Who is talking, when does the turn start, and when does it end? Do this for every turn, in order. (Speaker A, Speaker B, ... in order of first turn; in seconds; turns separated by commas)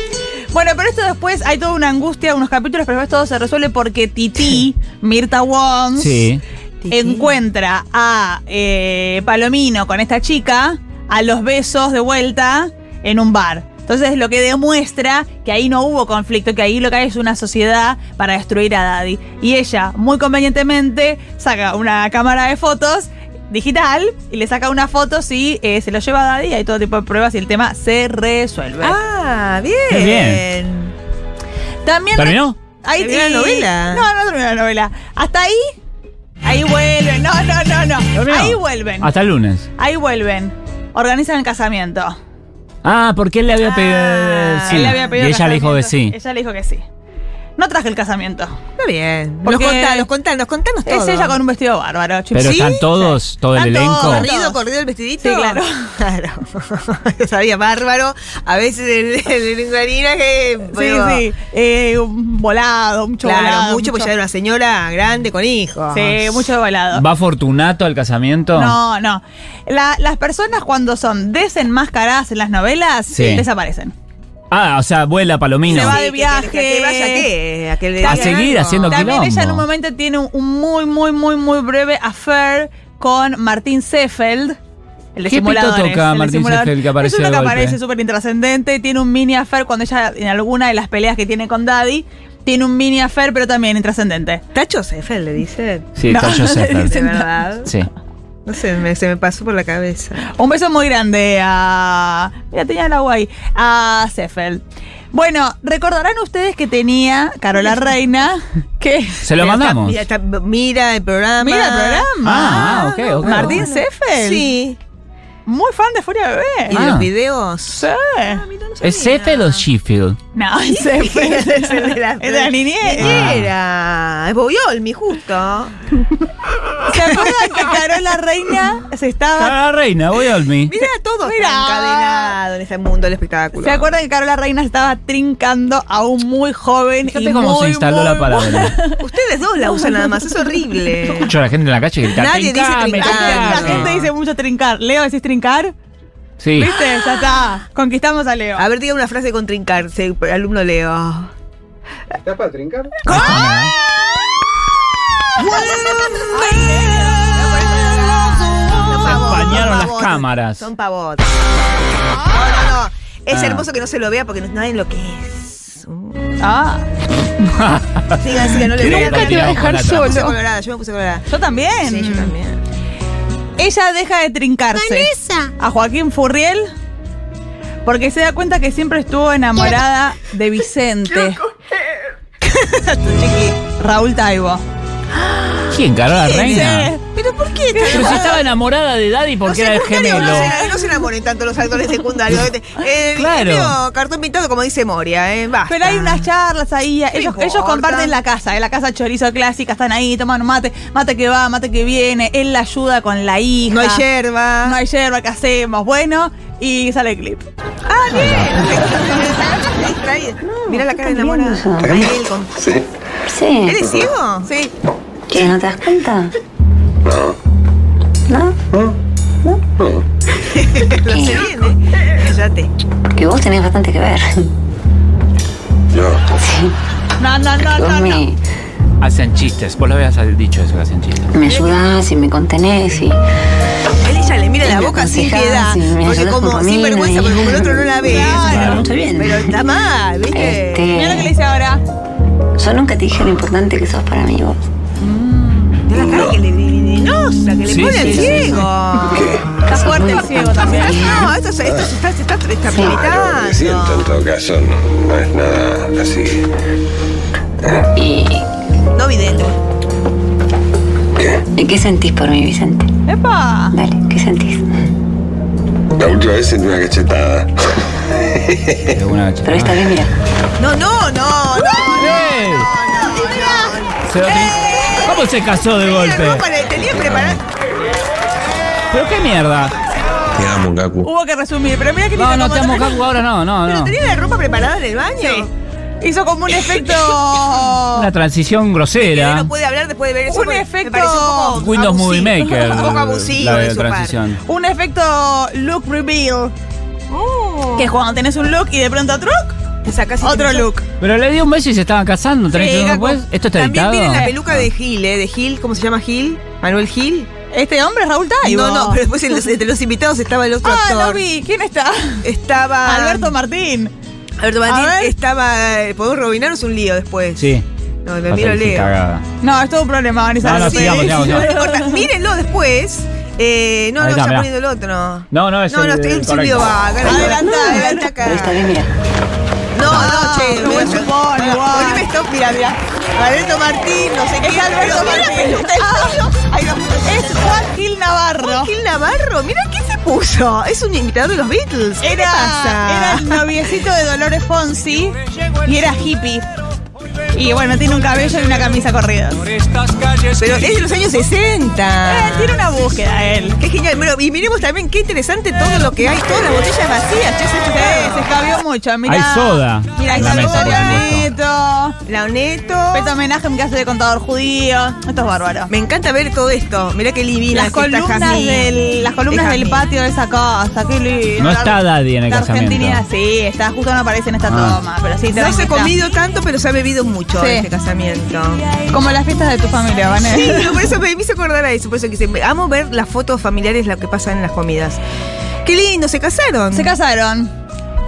Speaker A: 0.5-6.3, Speaker B: 6.0-6.4, Speaker C: 6.8-7.3, Speaker A: 6.9-29.0, Speaker C: 28.8-30.9, Speaker B: 29.9-30.4, Speaker A: 31.9-35.7, Speaker B: 32.2-32.5, Speaker C: 33.0-34.1, Speaker A: 36.4-39.1, Speaker B: 38.1-39.7, Speaker A: 39.8-42.2, Speaker B: 42.8-46.1, Speaker C: 43.6-45.1, Speaker A: 44.7-46.8, Speaker A: 47.6-48.5, Speaker C: 48.8-51.4, Speaker A: 49.5-50.1, Speaker A: 50.9-52.9, Speaker B: 52.3-54.3, Speaker C: 52.4-53.1, Speaker A: 53.5-54.6, Speaker C: 54.0-61.2, Speaker A: 55.2-56.0, Speaker A: 60.7-64.1, Speaker C: 63.2-66.2, Speaker A: 65.9-67.0, Speaker B: 66.9-68.8, Speaker A: 68.5-73.9, Speaker B: 73.1-73.5, Speaker B: 74.5-76.0, Speaker C: 75.7-79.1, Speaker A: 75.7-77.3, Speaker A: 78.0-84.6, Speaker B: 78.0-79.6, Speaker A: 85.2-94.4, Speaker B: 85.3-87.8, Speaker C: 94.5-95.9, Speaker B: 96.0-96.9, Speaker A: 96.1-97.3, Speaker C: 96.8-97.7, Speaker C: 98.5-100.3, Speaker A: 100.3-109.2, Speaker B: 109.2-110.0, Speaker C: 109.4-114.8, Speaker A: 111.4-114.5, Speaker B: 112.2-113.6, Speaker A: 115.5-116.8, Speaker C: 116.7-119.7, Speaker B: 116.7-117.1, Speaker A: 117.7-118.4, Speaker B: 118.8-120.2, Speaker A: 120.3-123.4, Speaker C: 120.7-126.2, Speaker B: 123.0-123.5, Speaker C: 126.9-127.8, Speaker A: 126.9-129.6, Speaker B: 129.4-130.7, Speaker C: 130.7-133.9, Speaker A: 130.8-132.4, Speaker A: 133.6-139.0, Speaker B: 137.0-138.8, Speaker C: 139.0-141.3, Speaker B: 141.0-144.0, Speaker C: 142.1-143.9, Speaker A: 143.0-145.7, Speaker B: 146.4-146.7, Speaker A: 146.6-148.7, Speaker C: 146.6-147.2, Speaker C: 148.6-151.3, Speaker C: 153.1-153.7, Speaker A: 153.1-153.4, Speaker B: 153.1-153.7, Speaker A: 155.4-157.8, Speaker C: 155.4-161.4, Speaker B: 158.8-160.7, Speaker C: 162.2-166.3, Speaker B: 163.3-163.7, Speaker A: 166.4-166.9, Speaker B: 167.4-170.3, Speaker C: 168.2-171.3, Speaker A: 168.8-170.3, Speaker A: 171.3-172.3, Speaker C: 171.8-172.6, Speaker A: 173.6-176.7, Speaker A: 177.9-181.4, Speaker C: 182.4-183.6, Speaker A: 183.8-184.6, Speaker B: 185.7-186.9, Speaker A: 186.1-187.0, Speaker C: 186.2-188.5, Speaker A: 187.7-188.4, Speaker B: 187.9-190.6, Speaker C: 189.5-196.3, Speaker A: 190.1-190.7, Speaker B: 193.2-193.8, Speaker A: 195.7-204.0, Speaker C: 197.1-198.2, Speaker C: 203.7-204.8, Speaker A: 204.7-207.4, Speaker C: 207.9-212.5, Speaker B: 208.1-208.9, Speaker D: 210.4-212.1, Speaker E: 211.8-212.9, Speaker D: 213.3-213.8, Speaker C: 213.6-214.5, Speaker E: 213.8-214.1, Speaker A: 214.4-214.7, Speaker D: 215.3-216.3, Speaker E: 217.1-217.4, Speaker D: 218.3-218.6, Speaker C: 220.6-222.7, Speaker D: 221.0-221.5, Speaker D: 223.2-224.5, Speaker E: 225.9-226.4, Speaker D: 226.4-226.7, Speaker A: 227.2-228.2, Speaker D: 227.6-228.4, Speaker B: 229.0-231.3, Speaker D: 231.3-233.2, Speaker C: 234.0-240.9, Speaker D: 234.6-239.6, Speaker A: 238.0-238.8, Speaker B: 238.5-238.9, Speaker D: 240.3-241.3, Speaker A: 240.9-241.8, Speaker D: 242.6-244.6, Speaker A: 245.0-245.8, Speaker C: 245.9-254.2, Speaker E: 245.9-246.4, Speaker B: 247.7-248.6, Speaker D: 247.8-251.3, Speaker E: 249.2-249.5, Speaker A: 249.7-251.2, Speaker E: 251.6-251.9, Speaker D: 252.7-253.1, Speaker E: 252.8-256.5, Speaker D: 258.0-258.4, Speaker C: 258.9-259.6, Speaker E: 261.2-261.4, Speaker D: 261.6-262.9, Speaker A: 263.1-263.8, Speaker D: 263.7-264.7, Speaker E: 266.0-269.0, Speaker B: 268.9-269.9, Speaker D: 269.4-270.1, Speaker C: 270.6-274.0, Speaker B: 272.0-272.7, Speaker A: 273.1-275.1, Speaker B: 274.1-277.4, Speaker C: 274.6-275.2, Speaker C: 275.8-277.4, Speaker B: 278.9-279.7, Speaker E: 280.4-281.1, Speaker A: 281.0-283.0, Speaker B: 282.2-283.9, Speaker C: 283.6-285.5, Speaker A: 285.2-285.5, Speaker A: 286.0-288.1, Speaker B: 287.9-289.5, Speaker C: 289.0-294.2, Speaker A: 290.3-291.6, Speaker B: 291.6-294.4, Speaker A: 292.4-292.8, Speaker A: 294.5-296.5, Speaker C: 297.1-297.9, Speaker A: 297.8-299.6, Speaker C: 299.9-300.7, Speaker A: 300.2-300.8, Speaker B: 301.0-304.7, Speaker A: 302.5-303.2, Speaker C: 303.5-307.3, Speaker A: 307.5-309.0, Speaker C: 308.4-311.2, Speaker A: 310.6-312.2, Speaker C: 312.2-313.4, Speaker A: 312.9-313.9, Speaker C: 314.4-317.5, Speaker A: 314.7-315.1, Speaker B: 317.4-317.6, Speaker C: 318.1-318.9, Speaker B: 318.3-319.2, Speaker A: 319.4-322.1, Speaker B: 320.4-321.5, Speaker C: 320.4-328.7, Speaker B: 324.0-324.5, Speaker B: 325.3-326.9, Speaker A: 327.0-328.1, Speaker D: 327.1-328.9, Speaker C: 329.7-337.7, Speaker B: 329.8-330.1, Speaker A: 329.9-332.1, Speaker A: 334.4-336.2, Speaker A: 337.1-338.7, Speaker C: 338.4-343.4, Speaker A: 342.0-346.5, Speaker A: 347.3-349.5, Speaker C: 350.4-352.6, Speaker A: 352.1-353.6, Speaker C: 353.6-358.4, Speaker A: 357.7-362.0, Speaker B: 359.1-361.3, Speaker C: 360.0-361.2, Speaker C: 362.1-363.1, Speaker A: 362.9-365.7, Speaker C: 365.7-368.7, Speaker A: 367.5-375.9, Speaker C: 369.3-369.9, Speaker B: 371.4-373.0, Speaker B: 374.5-374.8, Speaker C: 375.3-378.7, Speaker A: 377.4-377.7, Speaker A: 378.9-380.9, Speaker C: 380.2-385.0, Speaker C: 385.6-386.9, Speaker A: 386.7-387.5